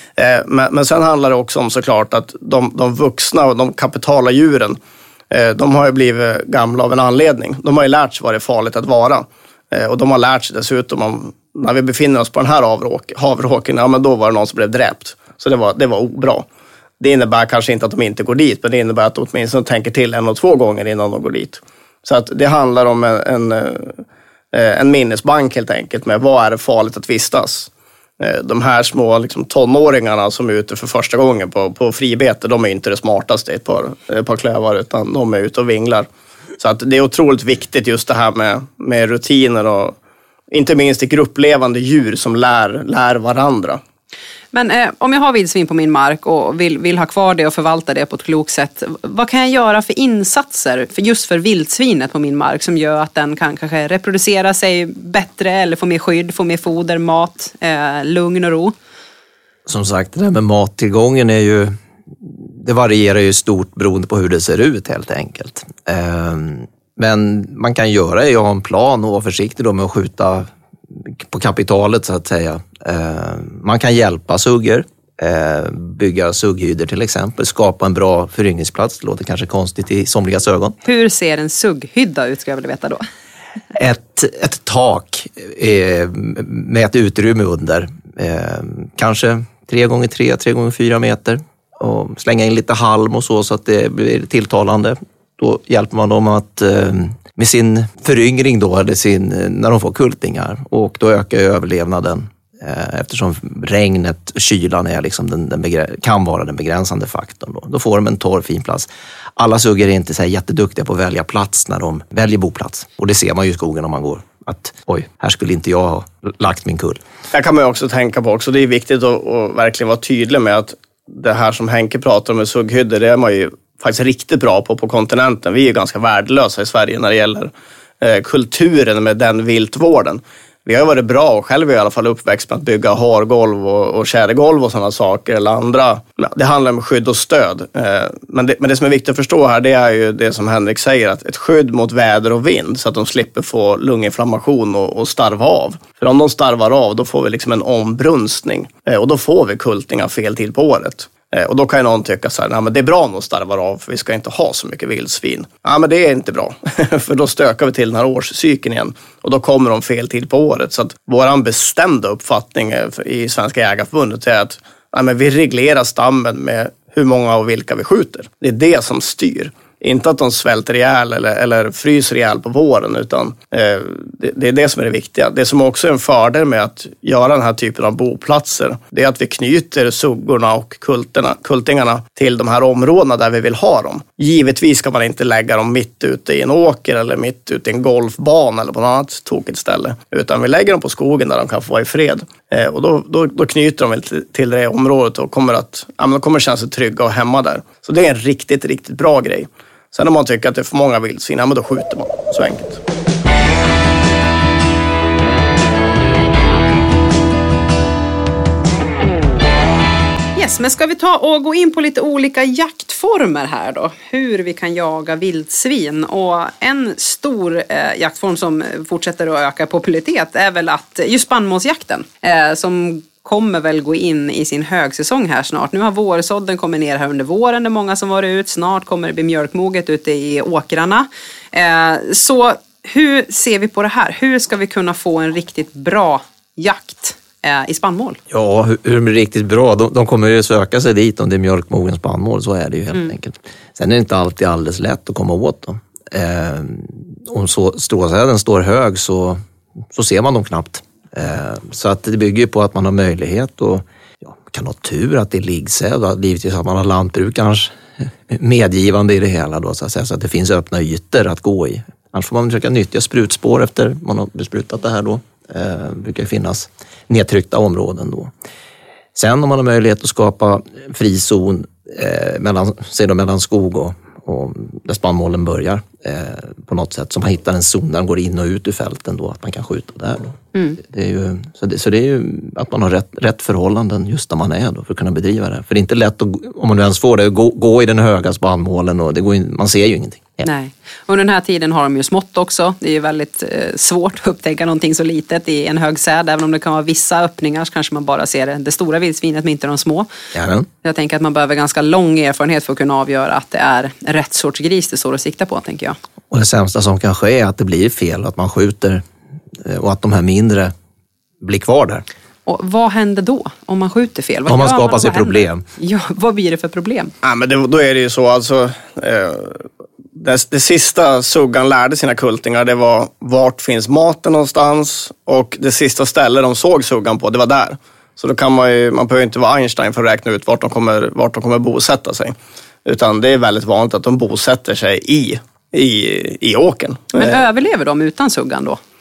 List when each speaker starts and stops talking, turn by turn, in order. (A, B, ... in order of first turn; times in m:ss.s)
0:00.2-0:04.8 A
0:05.3-0:16.4 A
0:17.0-0:27.7 A
0:28.2-0:36.1 A
0:36.6-0:40.0 A
0:40.5-0:43.8 A
0:44.5-0:58.7 B
0:59.7-1:20.8 C
1:20.8-1:23.0 B
1:23.8-1:57.0 C
1:57.3-3:22.8 A
3:30.4-3:58.2 B
3:58.3-4:09.4 C
4:09.9-4:28.3 C
4:29.2-4:50.5 C
4:50.4-5:00.1 B
5:00.3-5:00.7 C
5:00.8-5:06.0 B
5:06.3-5:09.0 C
5:09.6-5:10.7 C
5:11.4-5:12.0 C
5:12.5-5:17.1 B
5:14.5-5:15.6 C
5:17.2-5:19.6 A
5:20.2-5:37.4 A
5:37.1-5:38.8 B